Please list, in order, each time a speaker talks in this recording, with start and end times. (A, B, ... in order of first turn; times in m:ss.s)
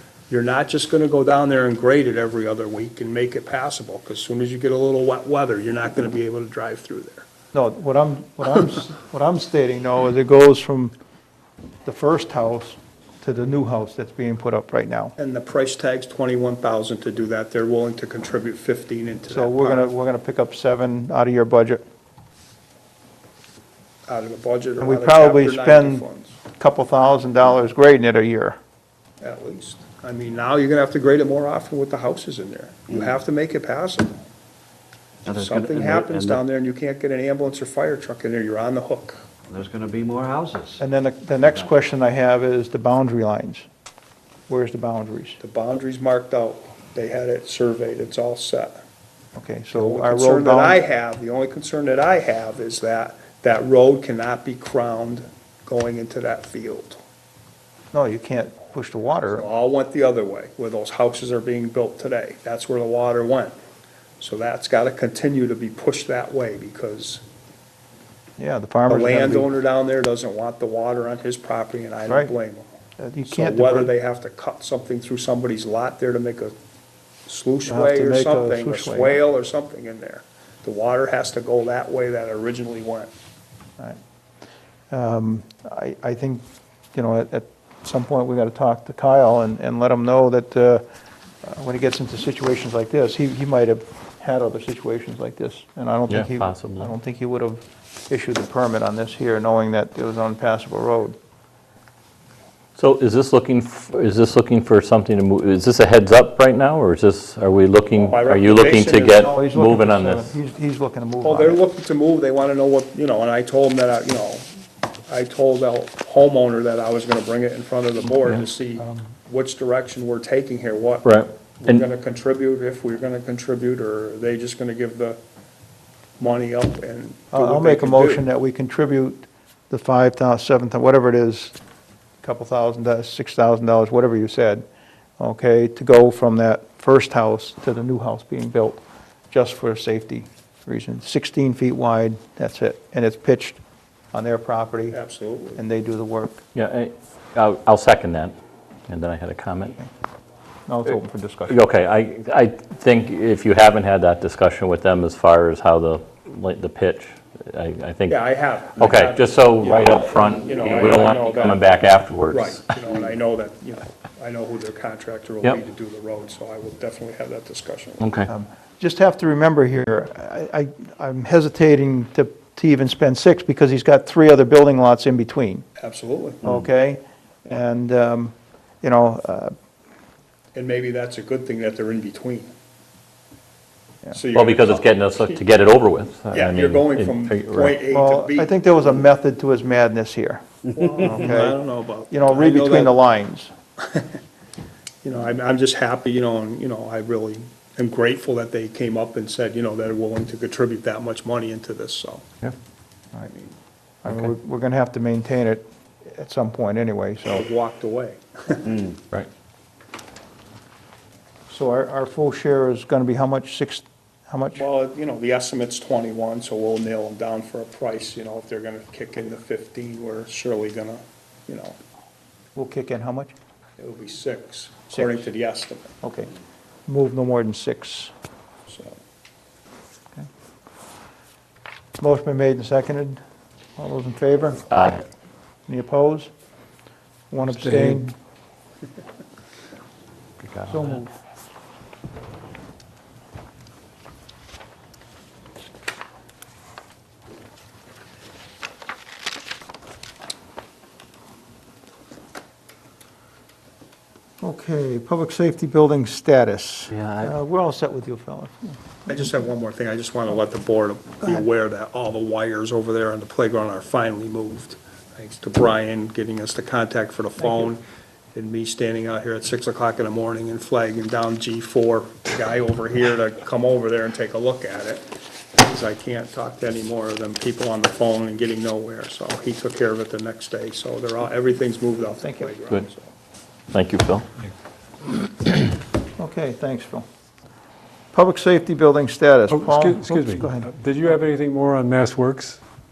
0:00.3-0:07.3 A
0:07.5-0:10.9 B
0:11.8-0:15.1 B
0:15.2-0:19.9 A
0:19.3-0:21.8 B
0:24.1-0:26.4 A
0:24.8-0:28.6 B
0:29.2-0:34.2 A
0:35.2-0:36.4 C
0:35.3-0:39.2 A
0:39.5-0:40.8 C
0:40.8-0:43.6 B
0:44.5-0:45.4 B
0:45.4-0:48.8 A
0:49.4-0:50.8 B
0:49.7-0:57.0 A
0:57.9-0:59.5 B
0:59.3-1:03.5 A
1:04.2-1:07.2 A
1:08.4-1:09.5 B
1:08.9-1:12.7 A
1:12.1-1:12.3 B
1:13.0-1:13.9 B
1:13.2-1:16.5 A
1:17.3-1:23.1 A
1:17.7-1:19.2 B
1:24.9-1:30.8 B
1:31.4-1:41.2 B
1:36.1-1:36.9 D
1:42.8-1:50.3 D
1:47.9-1:49.3 A
1:49.1-1:51.6 B
1:51.2-1:54.4 A
1:55.1-2:05.2 A
1:58.8-1:59.1 B
2:01.0-2:01.8 D
2:06.2-2:08.2 A
2:07.3-2:11.6 B
2:12.2-2:14.6 B
2:15.2-2:23.6 B
2:24.1-2:25.0 B
2:24.9-2:25.6 A
2:25.6-2:26.4 B
2:26.5-2:28.3 D
2:28.9-2:29.8 D
2:30.7-2:31.6 B
2:31.5-2:42.6 D
2:38.1-2:41.7 A
2:42.3-2:48.1 A
2:48.0-2:48.3 D
2:48.3-2:55.6 B
2:55.8-2:56.4 A
2:56.4-2:59.5 B
3:00.5-3:02.5 A
3:04.1-3:05.4 A
3:04.3-3:07.8 D
3:06.3-3:08.5 A
3:07.9-3:11.6 B
3:10.7-3:13.0 A
3:12.1-3:13.5 B
3:13.8-3:14.2 A
3:15.0-3:22.3 A
3:23.2-3:23.6 A
3:24.0-3:27.4 B
3:27.3-3:28.9 A
3:31.5-3:34.6 B
3:34.5-3:41.8 A
3:42.5-3:43.3 B
3:43.8-3:45.9 A
3:46.0-3:46.3 B
3:46.9-3:48.1 B
3:48.7-3:49.0 A
3:52.0-3:53.2 B
3:53.8-3:54.8 B
3:54.7-3:55.0 D
3:55.7-3:56.3 B
3:57.3-3:58.2 B
3:57.6-3:58.0 E
4:00.4-4:00.8 D
4:00.7-4:01.1 B
4:14.4-4:19.4 B
4:16.9-4:17.3 D
4:19.1-4:27.8 A
4:21.2-4:21.5 B
4:27.4-4:27.7 B
4:28.3-4:43.1 A
4:42.2-4:42.5 B
4:43.7-4:44.2 D
4:46.2-4:47.1 B
4:48.1-4:50.7 B
4:49.5-4:52.6 E